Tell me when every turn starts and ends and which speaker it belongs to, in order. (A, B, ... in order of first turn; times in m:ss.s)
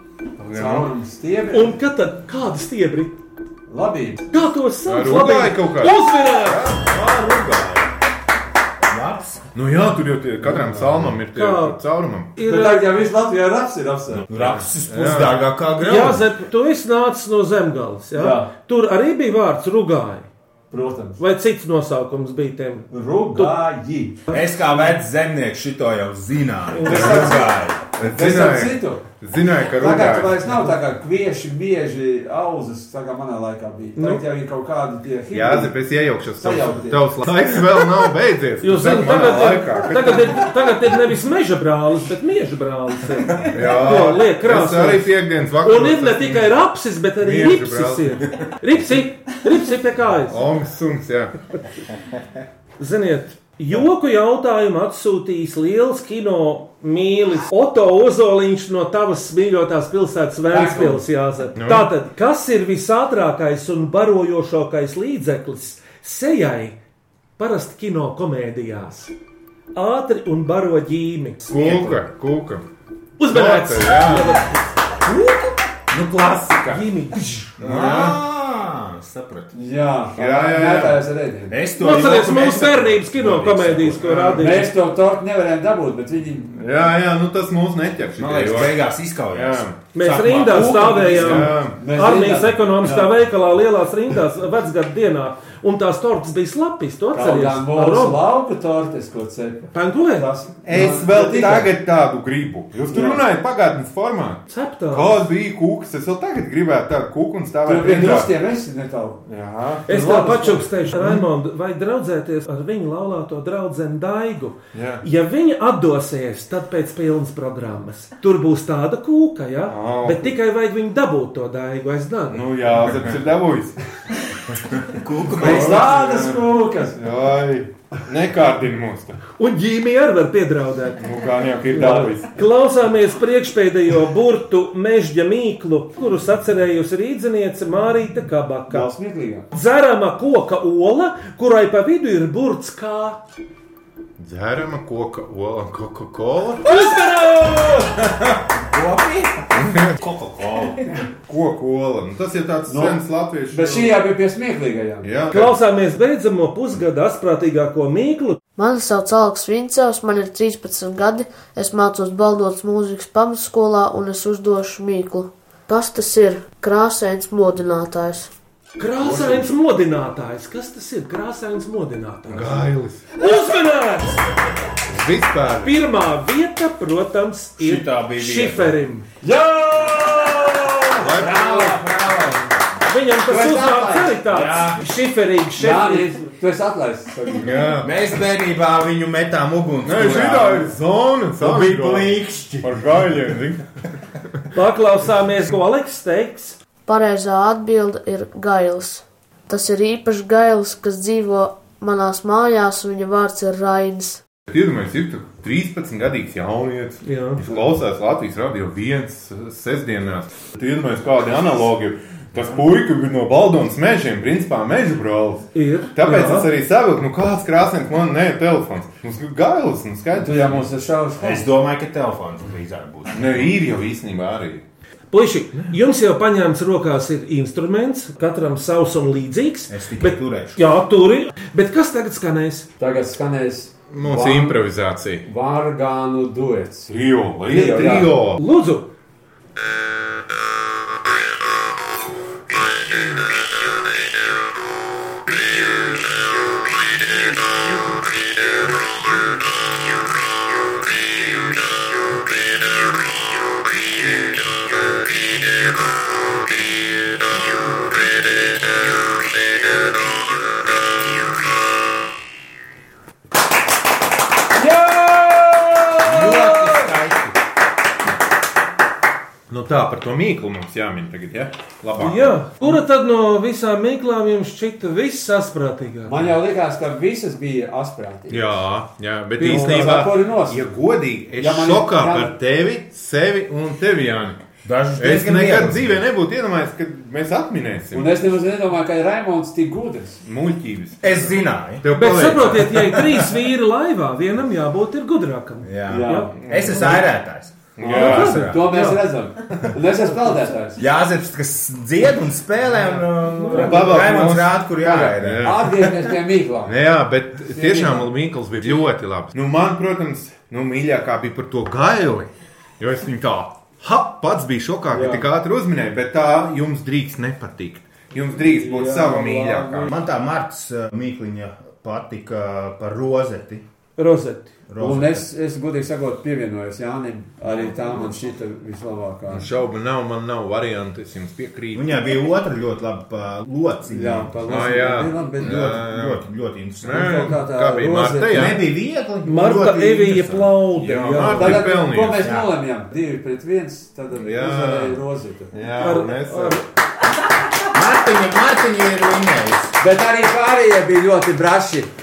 0:00.4-0:00.9 A
0:00.5-0:01.8 B
0:01.5-0:03.2 C
0:03.7-0:04.3 B
0:04.3-0:06.6 C
0:04.8-0:06.8 A
0:06.7-0:07.9 D
0:08.9-0:09.4 D
0:09.5-0:12.3 A
0:11.3-0:11.8 C
0:12.3-0:12.9 C
0:12.5-0:14.3 B
0:14.3-0:16.2 D
0:14.3-0:15.5 A
0:15.8-0:20.3 C
0:18.1-0:18.5 B
0:20.7-0:21.2 B
0:21.2-0:23.6 C
0:22.9-0:24.2 B
0:24.3-0:27.8 D
0:26.7-0:27.4 C
0:26.9-0:27.4 B
0:26.9-0:27.3 A
0:28.0-0:30.4 A
0:28.1-0:29.0 B
0:29.8-0:35.7 B
0:34.0-0:34.2 C
0:35.3-0:40.5 A
0:36.4-0:37.1 B
0:38.6-0:50.4 C
0:43.5-0:46.6 A
0:47.2-0:48.3 A
0:50.3-0:51.4 A
0:52.8-1:06.8 C
1:00.5-1:01.0 B
1:01.6-1:01.9 A
1:07.4-1:09.1 C
1:09.7-1:11.8 C
1:11.5-1:12.6 A
1:13.2-1:14.7 C
1:13.3-1:14.4 A
1:15.0-1:16.8 D
1:16.0-1:16.7 A
1:16.7-1:17.6 C
1:17.6-1:19.5 D
1:17.6-1:18.2 A
1:19.5-1:21.6 B
1:20.2-1:21.0 A
1:21.5-1:24.0 D
1:21.8-1:24.7 C
1:23.9-1:24.5 A
1:24.4-1:26.6 B
1:26.6-1:29.8 A
1:28.2-1:31.0 D
1:29.9-1:38.2 C
1:30.5-1:33.1 B
1:31.1-1:31.8 A
1:37.1-1:41.7 B
1:39.7-1:40.3 C
1:40.6-1:48.3 A
1:42.8-1:43.2 B
1:44.5-1:45.2 C
1:47.6-1:49.2 B
1:49.3-1:49.8 A
1:49.9-1:50.7 B
1:49.9-2:02.4 C
1:54.7-1:55.0 A
1:59.7-2:00.3 A
2:02.3-2:03.8 A
2:04.5-2:05.8 D
2:05.4-2:07.0 B
2:05.4-2:09.2 A
2:09.4-2:11.0 C
2:11.0-2:12.3 A
2:11.7-2:12.1 B
2:11.8-2:18.9 C
2:18.7-2:19.5 B
2:19.5-2:23.2 C
2:24.2-2:26.7 A
2:26.6-2:27.8 C
2:27.6-2:30.9 D
2:29.5-2:30.0 A
2:31.3-2:34.0 A
2:32.7-2:35.1 B
2:35.0-2:35.5 A
2:35.3-2:38.4 C
2:38.6-2:48.3 E
2:48.8-2:54.2 C
2:49.0-2:49.5 B
2:52.3-2:53.1 A
2:54.9-2:55.8 A
2:55.6-2:59.0 C
2:57.6-2:58.7 D
2:59.2-3:02.5 B
3:01.0-3:01.7 A
3:01.5-3:01.9 D
3:02.9-3:06.2 C
3:03.2-3:04.3 B
3:04.3-3:04.8 D
3:05.6-3:07.6 B
3:07.3-3:07.9 A
3:07.8-3:10.7 D
3:09.8-3:13.6 A
3:11.4-3:12.8 D
3:14.5-3:16.6 C
3:16.9-3:24.2 E
3:24.5-3:40.6 A
3:27.0-3:27.4 C
3:35.5-3:36.5 C
3:40.1-3:41.5 B
3:41.2-3:43.5 D
3:43.1-3:44.6 A
3:45.1-3:52.7 C
3:49.7-3:50.6 D
3:52.8-3:54.6 B
3:53.9-3:55.2 A
3:55.2-3:56.9 B
3:56.9-3:58.4 A
3:57.5-3:58.1 B
3:57.6-3:58.9 C
4:24.5-4:26.9 B
4:26.0-4:27.3 D
4:29.5-4:32.4 A
4:32.0-4:36.2 C
4:36.0-4:38.6 B
4:38.3-4:48.2 A
4:39.4-4:40.7 B
4:39.4-4:40.0 C
4:41.4-4:42.4 B
4:44.6-4:45.9 D
4:47.9-4:50.2 B
4:50.2-4:52.9 A
4:51.0-4:51.8 D
4:51.9-4:56.3 C
4:55.6-4:58.6 D
4:55.9-4:57.0 B
4:56.4-4:57.0 A
4:57.8-4:58.4 A
4:57.8-5:00.8 B
4:57.9-4:59.0 C
5:00.8-5:05.7 D
5:03.3-5:04.0 C
5:03.5-5:04.0 B
5:03.5-5:05.9 A
5:04.8-5:06.8 B
5:06.6-5:19.9 A
5:07.5-5:08.1 B
5:14.9-5:15.3 B
5:18.3-5:19.9 B
5:19.9-5:23.6 D
5:24.0-5:24.5 C
5:24.7-5:25.2 D
5:24.8-5:29.5 B
5:29.3-5:32.2 A
5:31.7-5:34.3 D
5:33.9-5:35.8 B
5:34.4-5:36.2 A
5:35.4-5:37.3 D
5:36.8-5:38.7 A
5:36.8-5:38.6 B
5:38.3-5:40.5 D
5:39.2-5:41.6 C
5:40.7-5:42.2 A
5:41.3-5:45.5 B
5:42.2-5:42.5 D
5:44.1-5:46.6 A
5:45.8-5:46.6 C
5:47.7-5:49.7 D
5:49.8-5:51.9 B